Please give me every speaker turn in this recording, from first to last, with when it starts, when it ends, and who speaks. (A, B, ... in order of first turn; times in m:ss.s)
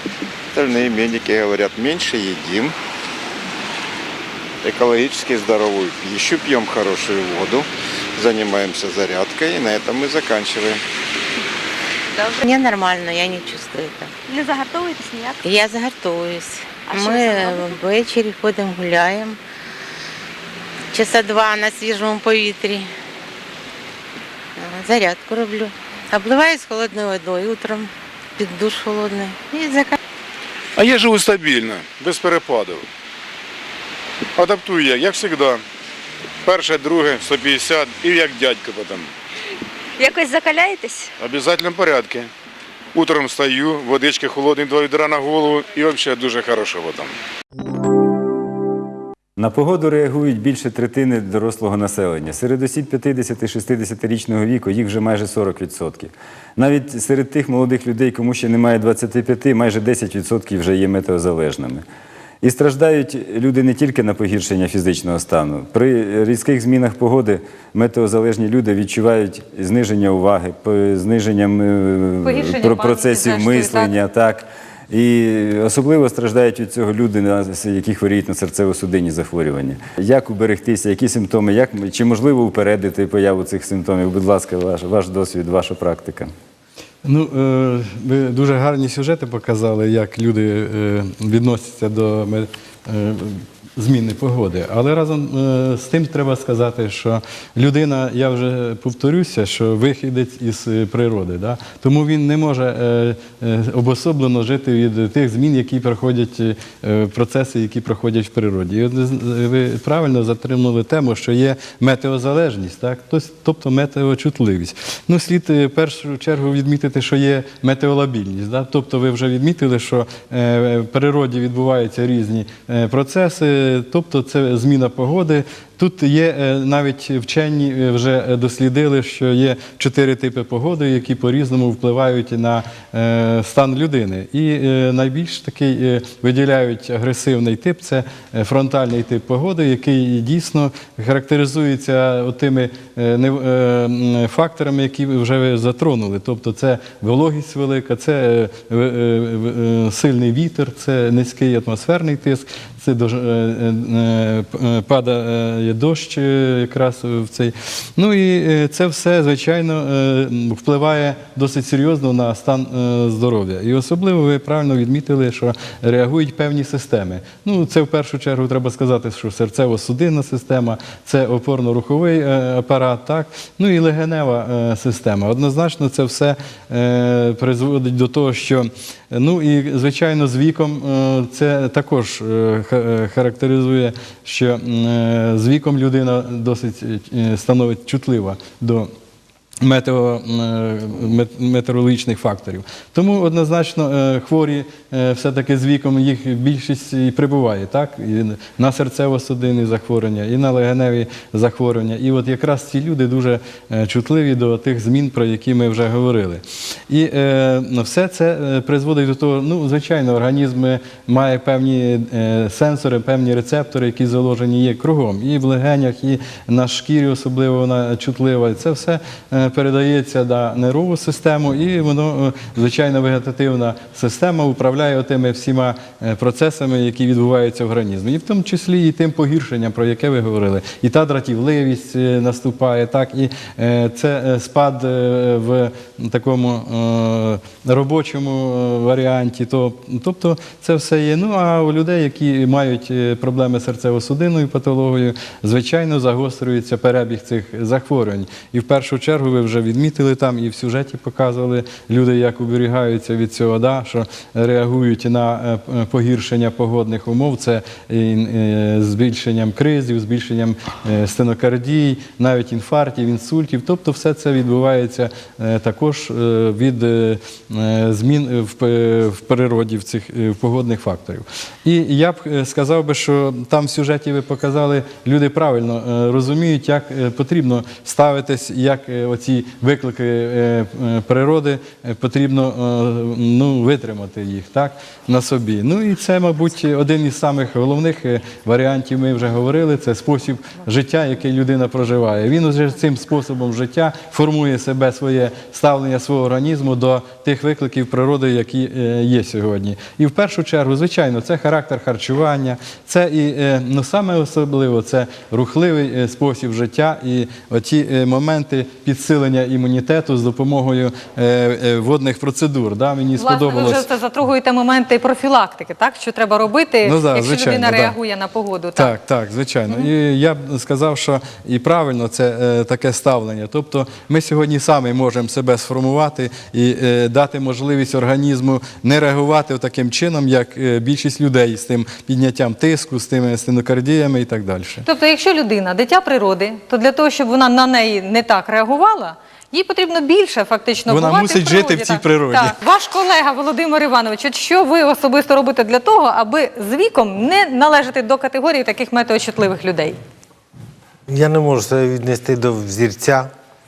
0:00.5-0:02.8 A
0:04.6-0:10.8 A
0:12.4-0:14.1 B
0:14.3-0:15.4 C
0:15.4-0:19.4 B
0:16.9-0:17.7 C
0:20.9-0:22.9 B
0:24.6-0:30.0 B
0:30.8-0:32.9 D
0:34.4-0:35.6 D
0:36.4-0:39.1 D
0:40.0-0:41.1 C
0:41.2-0:42.3 D
0:42.9-0:47.1 D
0:49.4-1:01.8 E
1:02.4-1:26.3 E
1:12.2-1:13.9 F
1:27.0-3:08.9 G
3:09.6-5:13.9 G
5:13.2-5:18.9 F
5:16.8-5:17.9 G
5:18.8-5:34.8 G
5:34.8-5:50.0 F
5:40.9-5:42.5 G
5:51.1-5:53.3 H